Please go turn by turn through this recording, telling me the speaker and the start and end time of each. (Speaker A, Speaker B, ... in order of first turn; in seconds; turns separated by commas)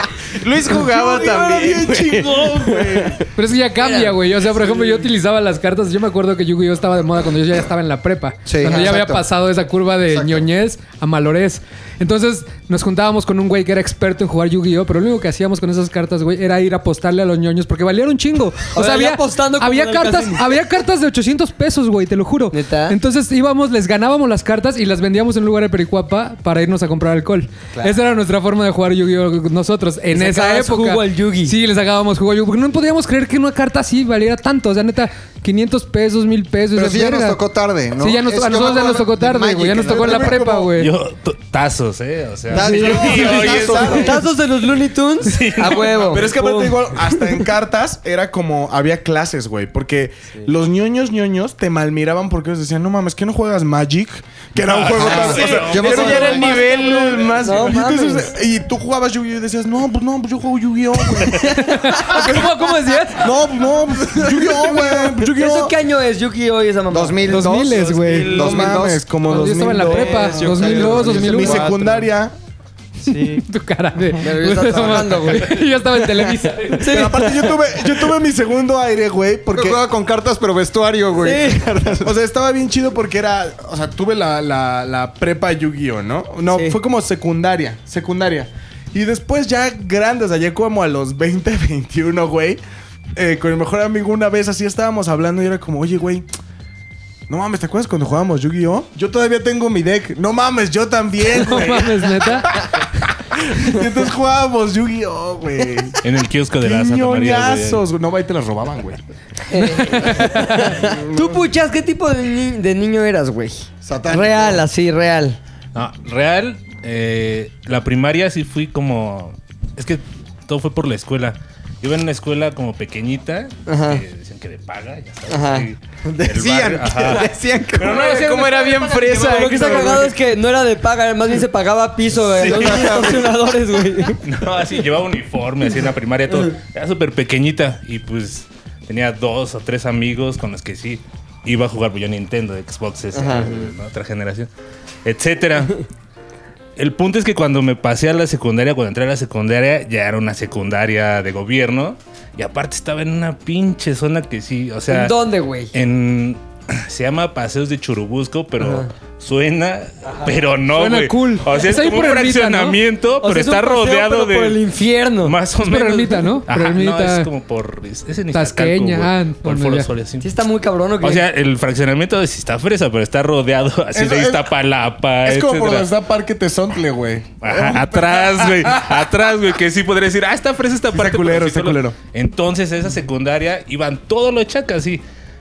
Speaker A: 0.3-3.2, Speaker B: 0.6-3.2, Speaker C: 3.4-37.4, Speaker D: 3.8-4.2, Speaker E: 8.4-9.2, Speaker E: 10.1-10.5, Speaker D: 18.7-20.5, Speaker D: 22.5-23.0, Speaker D: 30.1-31.5, Speaker E: 36.7-40.4, Speaker C: 38.0-40.9, Speaker B: 39.8-40.7, Speaker F: 40.8-44.2, Speaker E: 42.5-44.2, Speaker B: 42.6-44.1, Speaker D: 43.8-47.3, Speaker F: 45.2-46.3, Speaker B: 45.6-62.5, Speaker F: 54.6-56.4, Speaker E: 54.9-56.9, Speaker A: 55.6-57.9, Speaker D: 57.4-58.3, Speaker C: 61.6-63.3, Speaker B: 63.2-65.8, Speaker E: 64.2-65.1, Speaker D: 65.3-67.3, Speaker E: 66.9-69.0, Speaker C: 67.3-68.4, Speaker A: 67.6-68.9, Speaker B: 68.2-72.3, Speaker C: 69.2-71.7, Speaker A: 69.5-72.1, Speaker A: 73.0-73.4, Speaker C: 73.1-77.0, Speaker D: 74.2-75.6, Speaker D: 76.8-77.3, Speaker B: 76.8-79.8, Speaker E: 79.5-82.2, Speaker D: 81.2-81.7, Speaker B: 82.0-92.6, Speaker D: 86.5-86.8, Speaker B: 93.2-96.2, Speaker B: 97.3-106.0, Speaker C: 101.3-102.5, Speaker F: 106.0-107.8, Speaker B: 106.6-109.0, Speaker D: 109.5-115.4, Speaker E: 113.8-114.6, Speaker F: 115.7-129.1, Speaker D: 123.7-124.0, Speaker D: 125.3-125.7, Speaker E: 126.0-129.0, Speaker A: 127.8-130.1, Speaker D: 129.2-134.2, Speaker E: 132.3-133.4, Speaker F: 132.4-133.0, Speaker F: 134.2-144.5, Speaker D: 136.3-136.5, Speaker D: 143.1-143.7, Speaker F: 145.0-145.8, Speaker F: 146.8-155.2, Speaker D: 154.9-155.7, Speaker F: 155.7-164.6, Speaker D: 158.6-158.9, Speaker C: 160.6-162.8, Speaker D: 163.2-165.3, Speaker F: 165.2-170.2, Speaker C: 165.6-167.3, Speaker C: 168.3-169.9, Speaker D: 170.2-171.2, Speaker F: 171.0-175.9, Speaker B: 173.9-174.5, Speaker B: 175.2-179.3, Speaker F: 177.4-185.0, Speaker B: 180.9-182.0